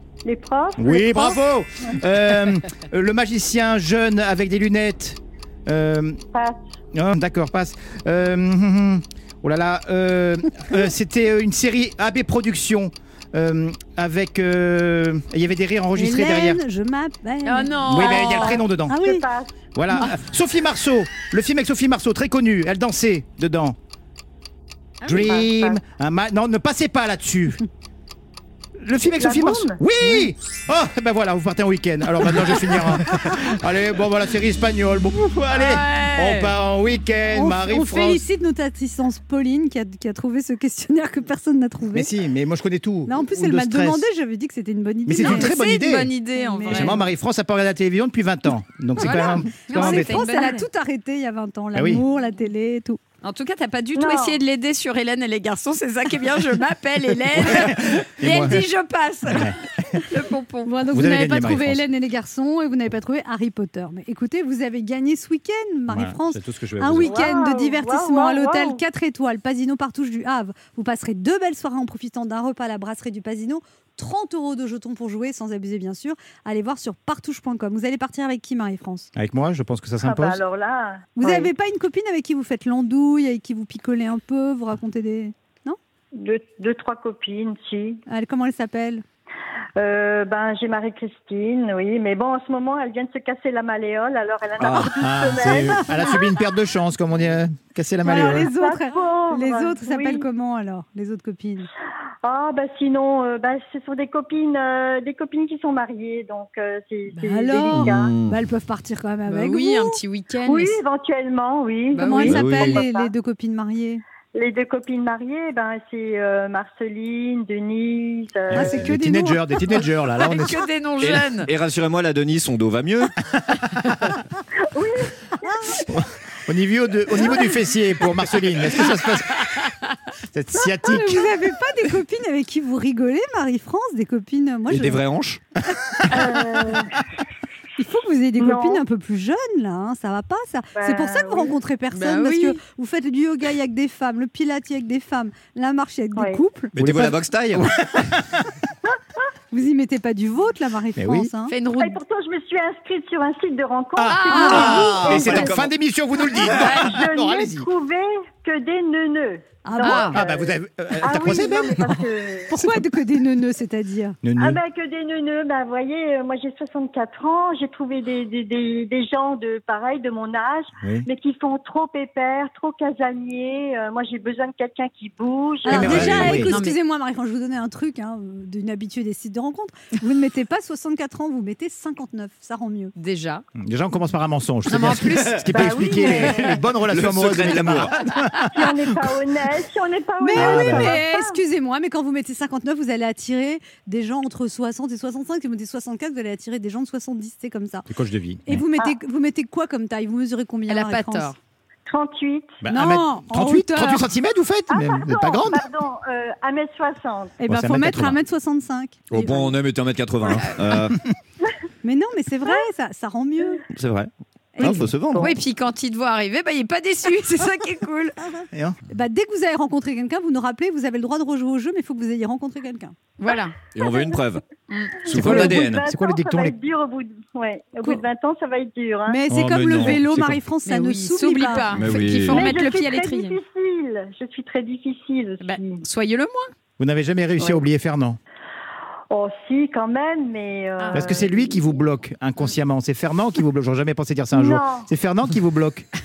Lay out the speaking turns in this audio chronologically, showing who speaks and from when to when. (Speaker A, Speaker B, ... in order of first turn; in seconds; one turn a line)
Speaker A: 0.2-1.4
Speaker B: 0.8-6.2
Speaker A: 6.3-6.6
Speaker B: 6.9-16.6
Speaker C: 16.0-17.8
Speaker D: 17.4-18.6
Speaker B: 17.9-19.0
Speaker A: 18.0-19.6
Speaker C: 18.9-19.2
Speaker B: 19.8-23.8
Speaker D: 25.0-25.3
Speaker B: 25.0-27.6
Speaker A: 25.2-25.8
Speaker B: 28.8-38.2
Speaker A: 29.2-29.8
Speaker D: 35.5-36.5
Speaker C: 37.3-42.1
Speaker B: 41.9-44.1
Speaker C: 43.1-45.5
Speaker B: 45.1-46.1
Speaker D: 45.2-47.0
Speaker C: 46.4-47.0
Speaker B: 46.7-50.2
Speaker D: 49.0-50.7
Speaker C: 49.0-53.0
Speaker B: 51.7-52.0
Speaker D: 53.2-60.7
Speaker A: 54.0-54.4
Speaker B: 57.4-58.7
Speaker B: 59.3-60.0
Speaker C: 60.7-79.1
Speaker B: 60.9-61.9
Speaker B: 65.9-67.3
Speaker A: 67.0-68.8
Speaker B: 79.2-80.4
Speaker A: 80.0-81.5
Speaker C: 81.2-85.8
Speaker A: 86.2-88.0
Speaker C: 88.1-89.0
Speaker A: 89.8-96.3
Speaker E: 94.6-94.9
Speaker B: 94.7-98.5
Speaker C: 98.0-101.7
Speaker A: 98.0-100.3
Speaker A: 102.2-108.1
Speaker C: 107.1-110.0
Speaker E: 107.7-108.4
Speaker D: 109.3-110.8
Speaker A: 110.5-113.1
Speaker D: 111.9-112.3
Speaker C: 112.0-114.0
Speaker E: 112.2-112.8
Speaker A: 114.3-118.8
Speaker B: 118.5-120.6
Speaker C: 118.5-119.5
Speaker D: 120.2-121.5
Speaker E: 121.0-123.1
Speaker A: 124.7-125.8
Speaker B: 125.9-129.7
Speaker B: 130.3-131.3
Speaker C: 130.8-135.0
Speaker B: 134.7-136.8
Speaker E: 134.8-135.4
Speaker A: 136.1-137.0
Speaker C: 137.8-146.8
Speaker A: 138.4-138.8
Speaker A: 140.8-141.6
Speaker D: 141.9-142.6
Speaker A: 146.2-146.4
Speaker E: 146.8-147.7
Speaker B: 146.8-148.2
Speaker C: 149.5-151.5
Speaker B: 151.0-151.3
Speaker D: 151.5-152.0
Speaker A: 151.8-155.7
Speaker B: 154.0-157.7
Speaker D: 154.1-154.8
Speaker C: 154.3-155.2
Speaker E: 155.1-155.6
Speaker A: 156.3-162.5
Speaker C: 159.7-160.2
Speaker D: 159.8-160.2
Speaker B: 160.1-162.1
Speaker C: 162.5-164.2
Speaker B: 164.2-164.6
Speaker A: 164.4-176.4
Speaker B: 170.8-171.1
Speaker C: 175.7-182.9
Speaker B: 175.7-176.5
Speaker D: 176.5-176.8
Speaker D: 183.0-183.4
Speaker B: 183.6-189.2
Speaker D: 184.7-185.7
Speaker A: 185.5-186.6
Speaker E: 186.9-187.9
Speaker A: 188.5-191.4
Speaker C: 190.2-197.9
Speaker B: 190.3-191.0
Speaker B: 197.9-198.7
Speaker C: 198.4-201.3
Speaker D: 200.7-201.4
Speaker A: 201.9-202.6
Speaker B: 202.6-205.6
Speaker C: 202.7-204.1
Speaker A: 204.7-207.4
Speaker C: 207.4-209.6
Speaker B: 207.4-208.2
Speaker E: 209.1-211.0
Speaker C: 211.8-213.6
Speaker E: 213.8-215.3
Speaker C: 214.6-214.8
Speaker B: 214.6-214.9
Speaker D: 215.2-218.2
Speaker B: 218.5-218.8
Speaker C: 218.9-222.9
Speaker D: 223.2-223.6
Speaker E: 223.7-224.4
Speaker D: 224.7-225.1
Speaker E: 225.0-225.9
Speaker A: 225.1-229.2
Speaker B: 225.1-226.6
Speaker C: 229.1-231.7
Speaker B: 229.3-230.4
Speaker D: 230.7-233.4
Speaker E: 231.8-232.5
Speaker A: 232.3-235.8
Speaker D: 235.4-236.5
Speaker B: 236.8-238.2
Speaker A: 239.1-241.7
Speaker D: 240.8-241.1
Speaker B: 240.9-245.9
Speaker A: 244.3-244.9